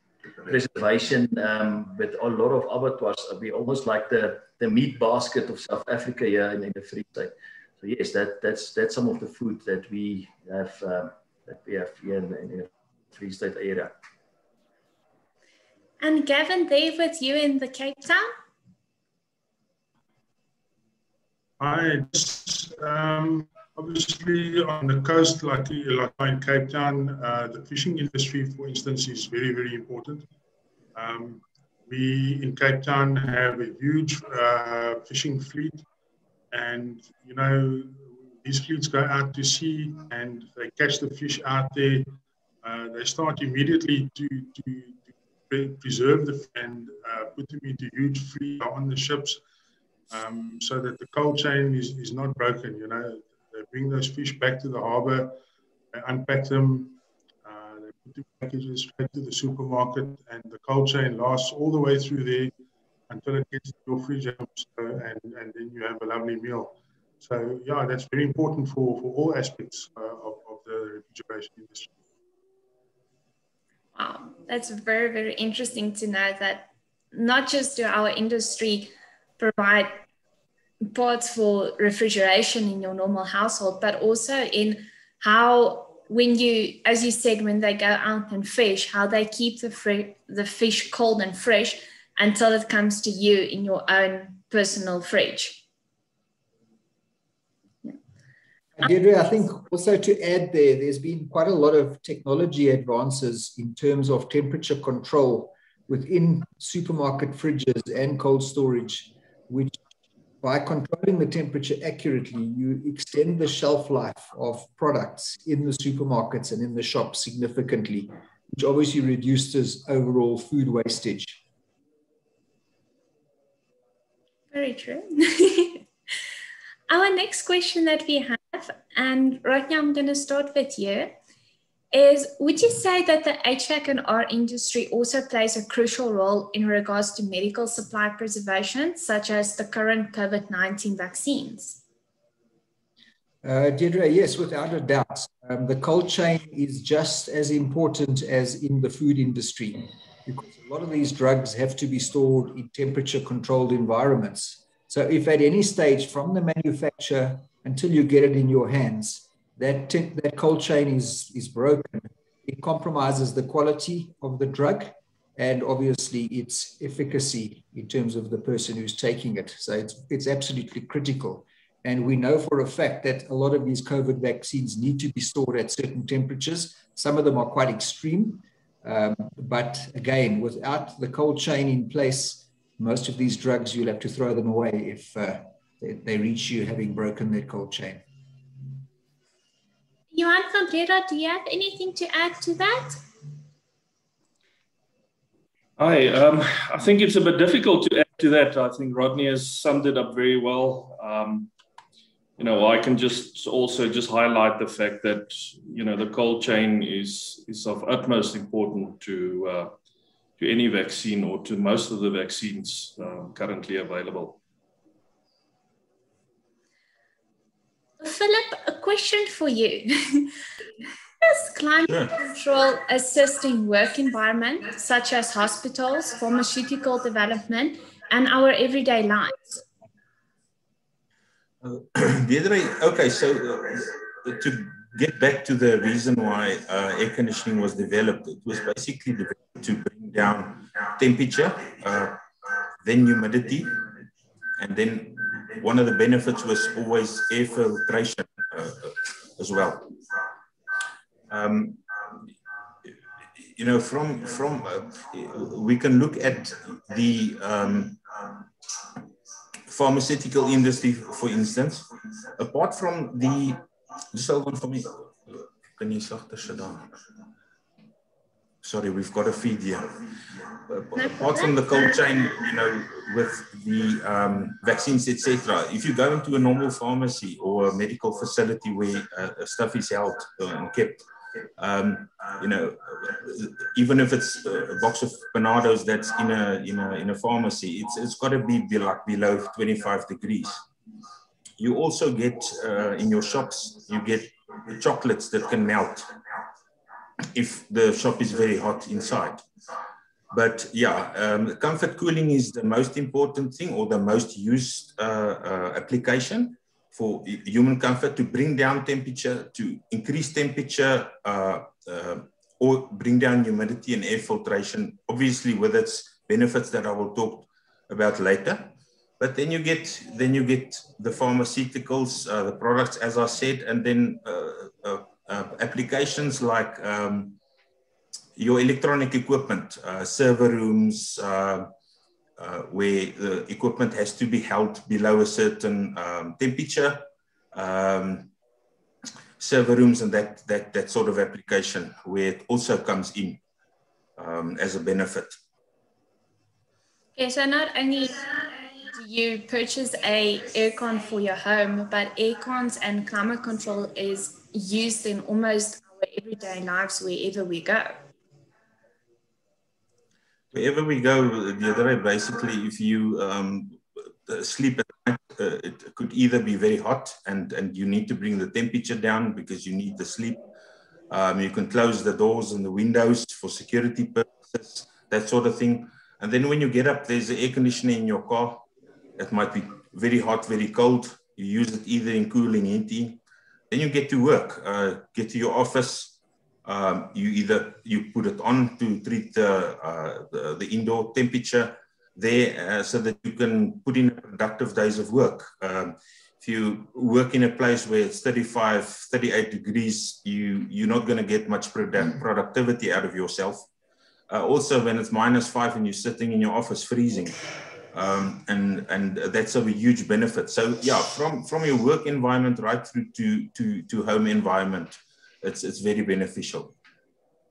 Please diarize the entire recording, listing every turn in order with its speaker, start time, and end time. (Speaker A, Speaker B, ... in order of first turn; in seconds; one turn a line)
Speaker A: 0.4-13.9
Speaker B: 16.0-18.3
Speaker C: 21.6-30.2
Speaker C: 31.0-35.8
Speaker C: 36.5-42.1
Speaker C: 42.6-49.4
Speaker C: 50.1-55.3
Speaker C: 56.0-62.5
Speaker C: 63.1-71.9
Speaker B: 74.0-80.0
Speaker B: 80.9-95.6
Speaker D: 98.8-109.8
Speaker D: 110.4-121.4
Speaker B: 124.5-125.8
Speaker B: 126.9-131.1
Speaker B: 131.9-141.8
Speaker D: 143.4-188.0
Speaker B: 190.1-193.0
Speaker E: 195.8-201.5
Speaker E: 202.4-209.7
Speaker E: 210.4-214.4
Speaker B: 218.0-220.3
Speaker B: 221.2-229.6
Speaker F: 231.6-242.2
Speaker F: 242.8-243.7
Speaker F: 244.6-249.9
Speaker F: 251.3-251.8
Speaker F: 253.6-258.4
Speaker F: 259.7-263.6
Speaker F: 264.1-266.9
Speaker F: 268.6-269.9
Speaker F: 270.7-281.0
Speaker B: 271.0-271.6
Speaker F: 281.6-290.6
Speaker F: 291.6-296.1
Speaker F: 297.4-299.4
Speaker F: 300.3-327.4
Speaker F: 328.4-331.7
Speaker F: 332.4-338.3
Speaker F: 339.4-343.4
Speaker F: 344.2-345.4
Speaker B: 347.2-358.0
Speaker F: 360.5-370.4
Speaker F: 371.1-403.7
Speaker F: 404.3-407.4
Speaker F: 407.9-416.7